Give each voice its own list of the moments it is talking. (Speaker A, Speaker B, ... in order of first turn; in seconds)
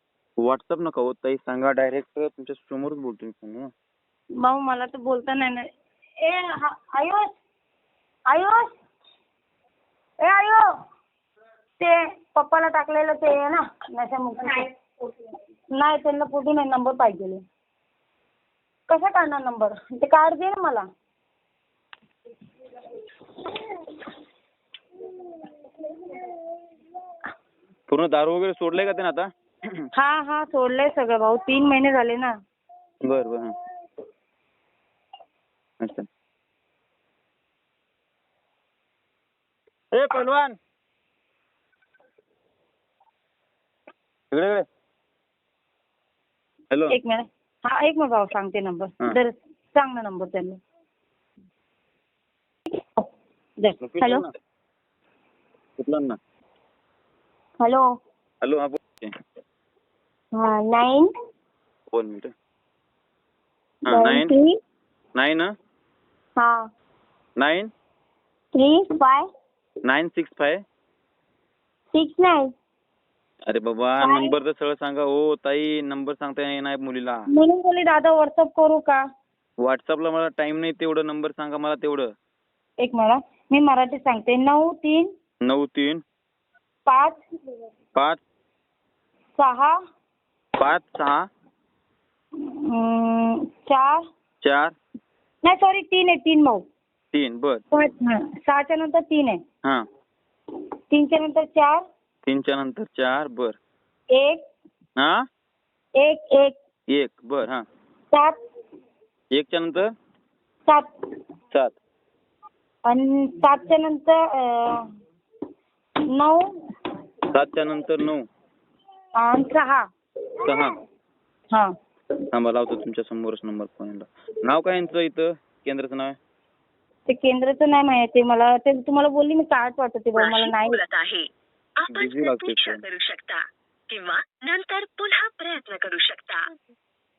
Speaker A: 0.4-3.7, 27.9-29.9, 33.0-33.5, 35.8-36.1, 39.9-40.6, 44.3-44.6, 46.7-47.0, 53.8-54.3, 55.8-56.2, 58.4-59.1, 61.9-62.3, 63.8-64.3, 65.1-65.5, 67.4-67.7, 69.8-70.6, 73.5-77.2, 79.6-82.1, 85.4-86.0, 87.9-88.2, 90.6-91.2, 94.4-94.7, 97.1-97.6, 102.2-103.6, 105.0-105.2, 106.9-107.6, 109.3-109.9, 117.3-118.2, 120.4-120.8, 122.3-126.2, 131.9-132.8
Speaker B: 4.4-7.3, 8.3-8.7, 10.2-10.7, 11.8-17.4, 18.9-20.9, 29.9-32.4, 46.9-50.6, 53.6-54.2, 57.6-57.9, 60.3-61.1, 63.9-64.5, 66.4-66.6, 68.5-69.2, 71.9-72.5, 74.0-74.4, 77.3-79.0, 82.8-85.1, 86.8-87.2, 89.4-89.8, 92.4-94.0, 95.4-96.7, 97.7-99.4, 100.9-101.8, 104.1-104.5, 106.0-106.6, 112.8-114.9, 116.1-116.6, 119.2-119.9, 127.1-130.8
Speaker C: 130.1-136.5